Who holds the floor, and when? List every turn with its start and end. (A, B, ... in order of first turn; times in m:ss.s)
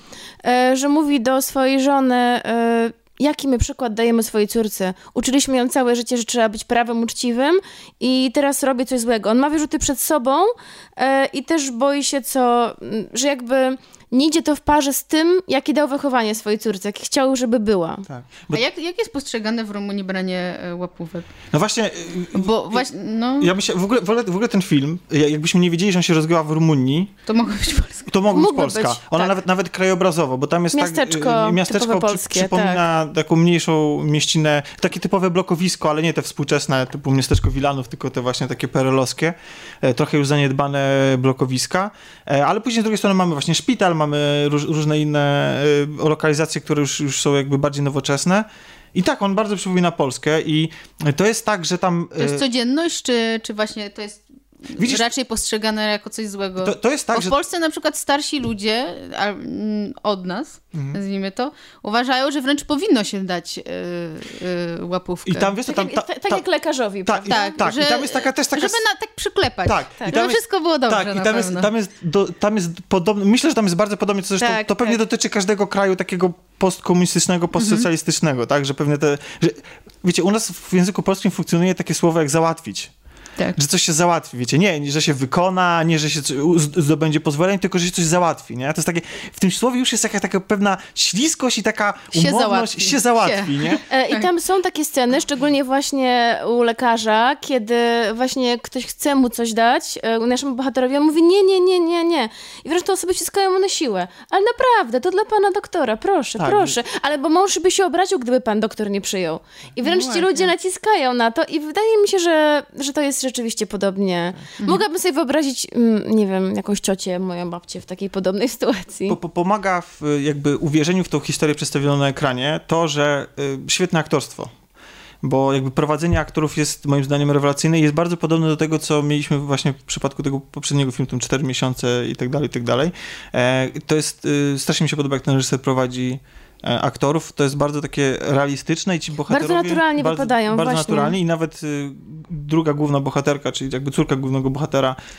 0:00.4-0:18.0 A
0:18.1-0:18.6 B
0:18.5-0:21.3 C
0:21.5-0:22.9 B
0:22.3-0:23.5 C
0:23.4-0:27.2 B
0:27.3-0:28.1 C
0:28.1-0:52.4 B
0:28.3-0:29.4 A
0:30.7-0:32.8 A
0:52.2-1:05.5 C
0:54.8-0:55.1 B
0:56.6-0:57.4 B
1:00.7-1:01.0 B
1:05.2-1:06.4 B
1:05.6-1:07.6 A
1:07.0-1:08.8 B
1:07.3-1:11.7 C
1:09.6-1:22.9 B
1:14.4-1:15.0 A
1:17.6-1:17.8 C
1:23.5-1:33.8 B
1:32.1-1:34.3 C
1:33.9-1:59.2 A
1:46.4-1:46.8 B
1:49.8-1:50.5 C
1:59.1-2:04.5 B
2:05.2-2:25.0 B
2:19.3-2:21.2 A